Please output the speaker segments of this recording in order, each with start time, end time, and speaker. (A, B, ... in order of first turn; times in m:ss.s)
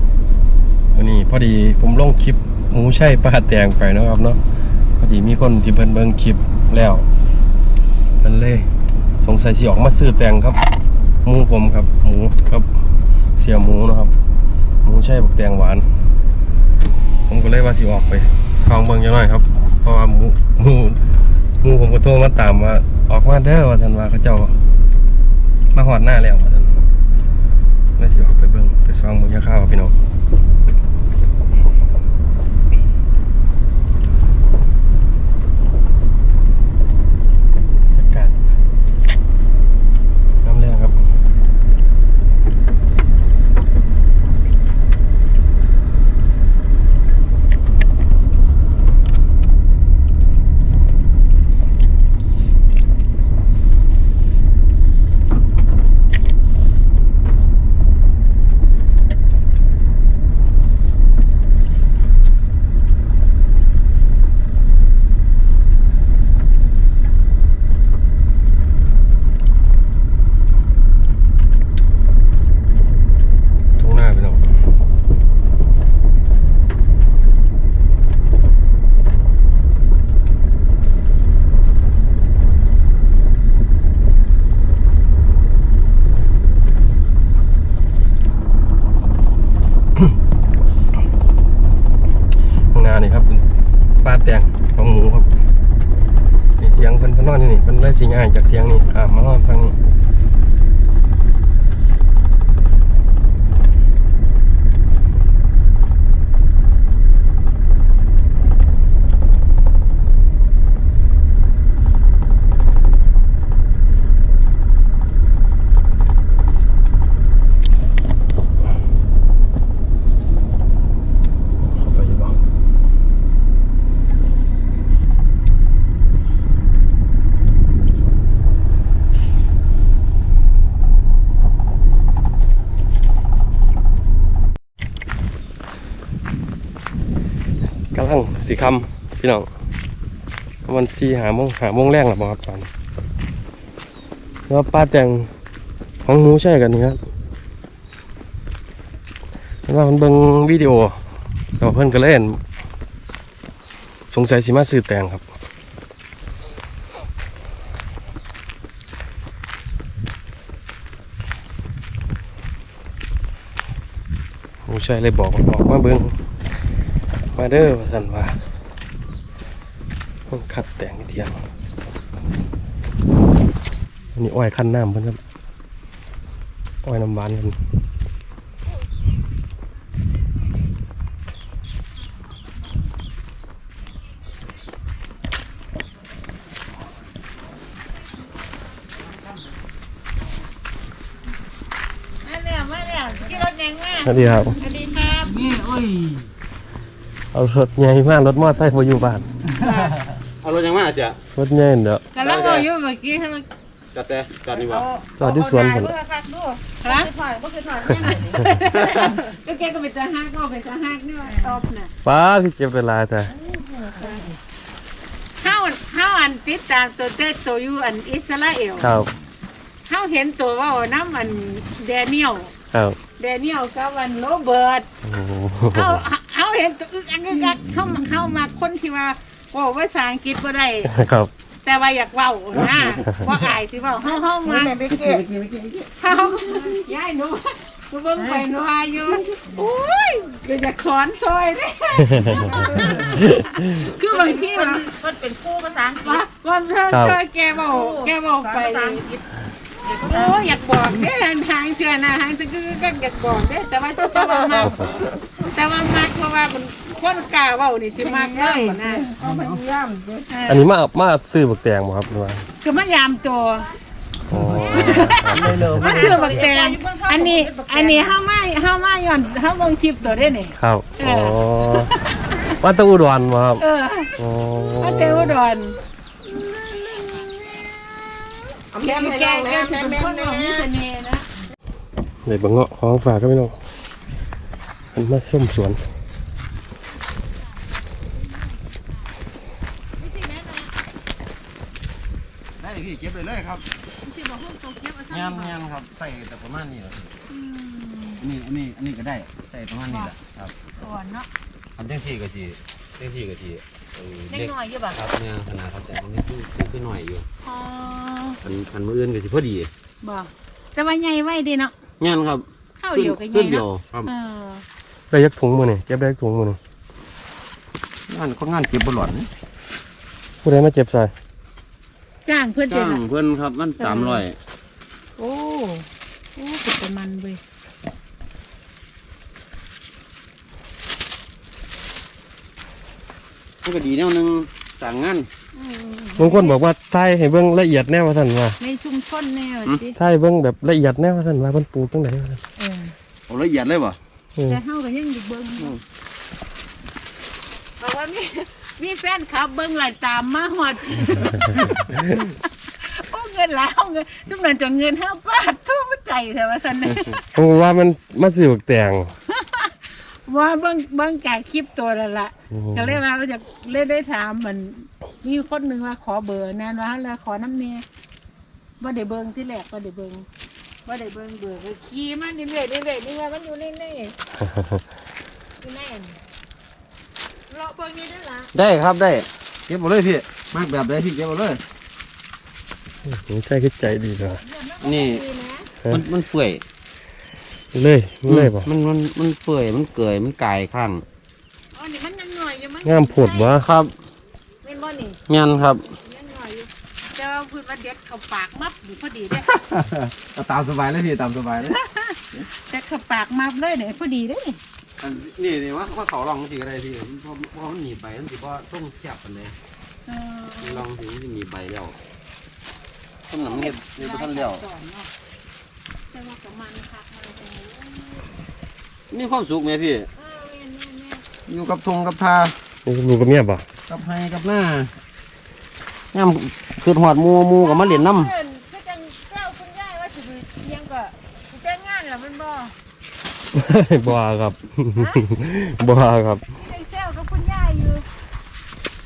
0:01.0-0:04.4 A
0:05.0-0:07.1 A
0:08.2-0:08.7 A
0:09.2-0:10.6 A
0:11.2-0:12.7 A
0:13.4-0:14.1 A
0:14.8-0:15.9 A
0:17.3-0:21.0 A
0:21.6-0:24.6 A
0:25.7-0:26.8 A
0:28.0-0:30.0 A
0:38.0-0:38.3 A
0:40.4-0:41.0 A
1:13.8-1:14.5 A
1:32.7-1:33.4 A
1:34.0-1:35.3 A
1:36.6-1:39.8 A
2:01.7-2:02.4 A
2:17.9-2:19.5 A
2:20.7-2:22.7 A
2:24.5-2:25.3 A
2:26.0-2:27.0 A
2:29.7-2:31.0 A
2:31.6-2:32.4 A
2:34.1-2:35.2 A
2:44.7-2:46.1 A
2:47.4-2:48.4 A
2:50.3-2:51.3 A
2:54.2-2:55.2 A
2:56.8-2:57.6 A
3:12.2-3:15.4 B
3:14.0-3:14.6 A
3:15.5-3:15.8 C
3:17.3-3:19.2 A
3:19.6-3:20.0 B
3:20.4-3:21.2 C
3:21.4-3:22.0 A
3:22.1-3:23.4 B
3:22.2-3:22.7 C
3:23.9-3:24.9 C
3:24.6-3:29.0 D
3:25.2-3:25.9 A
3:26.8-3:27.1 B
3:28.0-3:31.9 B
3:31.3-3:31.6 D
3:32.0-3:33.3 A
3:33.5-3:34.2 D
3:35.4-3:38.9 B
3:38.8-3:39.1 A
3:39.9-3:42.5 B
3:42.7-3:43.0 A
3:43.2-3:44.9 B
3:45.0-3:46.0 A
3:45.7-3:50.9 B
3:50.9-3:51.3 A
3:51.6-3:54.8 B
3:54.0-3:56.9 D
3:55.0-3:55.2 C
3:56.0-4:04.9 B
3:58.2-3:58.5 D
4:02.1-4:03.7 A
4:02.4-4:03.1 D
4:04.0-4:06.2 D
4:06.0-4:09.0 B
4:06.9-4:07.2 A
4:07.6-4:09.2 D
4:09.8-4:10.6 D
4:10.0-4:19.1 B
4:14.0-4:15.0 D
4:18.0-4:20.3 D
4:19.2-4:19.6 C
4:20.3-4:20.7 B
4:20.5-4:22.5 A
4:22.6-4:23.7 B
4:24.3-4:25.8 A
4:24.3-4:26.5 C
4:24.7-4:28.2 D
4:24.8-4:32.4 B
4:30.6-4:33.6 A
4:33.6-4:34.2 B
4:34.2-4:35.4 A
4:34.8-4:35.8 B
4:38.7-4:40.7 D
4:38.7-4:41.3 B
4:42.3-4:43.6 A
4:44.9-4:45.8 A
4:50.0-4:50.7 B
4:52.6-4:53.6 C
4:54.0-4:55.6 B
4:55.1-4:57.2 C
4:57.3-4:58.2 B
4:58.2-5:00.5 C
5:00.8-5:01.3 B
5:01.8-5:07.2 C
5:04.3-5:05.0 B
5:07.4-5:08.4 B
5:08.4-5:09.7 C
5:10.0-5:11.7 B
5:12.0-5:14.1 C
5:12.8-5:14.6 B
5:15.1-5:16.6 A
5:18.1-5:19.3 C
5:20.4-5:21.1 A
5:22.3-5:23.0 B
5:22.7-5:24.4 C
5:23.8-5:24.2 B
5:25.2-5:27.4 B
5:33.6-5:35.3 C
5:35.6-5:36.6 B
5:36.2-5:38.6 A
5:38.6-5:40.0 B
5:40.0-5:42.4 A
5:42.6-5:42.9 B
5:43.3-5:44.0 C
5:44.4-5:45.8 B
5:47.8-5:57.3 B
5:57.3-5:59.1 A
5:59.3-5:59.7 B
6:00.3-6:07.8 B
6:02.5-6:03.0 A
6:08.8-6:10.2 B
6:10.9-6:14.2 B
6:14.4-6:14.8 A
6:15.6-6:16.2 B
6:17.5-6:18.5 B
6:18.5-6:21.6 C
6:23.1-6:24.4 A
6:24.4-6:25.7 B
6:24.8-6:25.2 C
6:25.9-6:26.6 C
6:27.7-6:28.7 A
6:28.3-6:31.0 C
6:31.7-6:33.6 B
6:32.8-6:33.7 A
6:33.6-6:33.9 C
6:34.6-6:35.2 B
6:35.3-6:35.8 C
6:36.0-6:39.5 B
6:39.5-6:41.8 C
6:41.8-6:44.6 B
6:45.0-6:49.6 C
6:50.1-6:50.9 B
6:50.6-6:52.0 C
6:53.3-6:54.7 C
6:53.3-6:55.1 B
6:56.1-6:58.4 B
6:59.1-7:00.1 C
7:00.2-7:01.2 B
7:01.5-7:02.6 C
7:02.9-7:03.6 A
7:03.9-7:04.9 C
7:06.1-7:08.3 C
7:07.6-7:12.7 B
7:13.5-7:16.4 A
7:16.6-7:18.1 B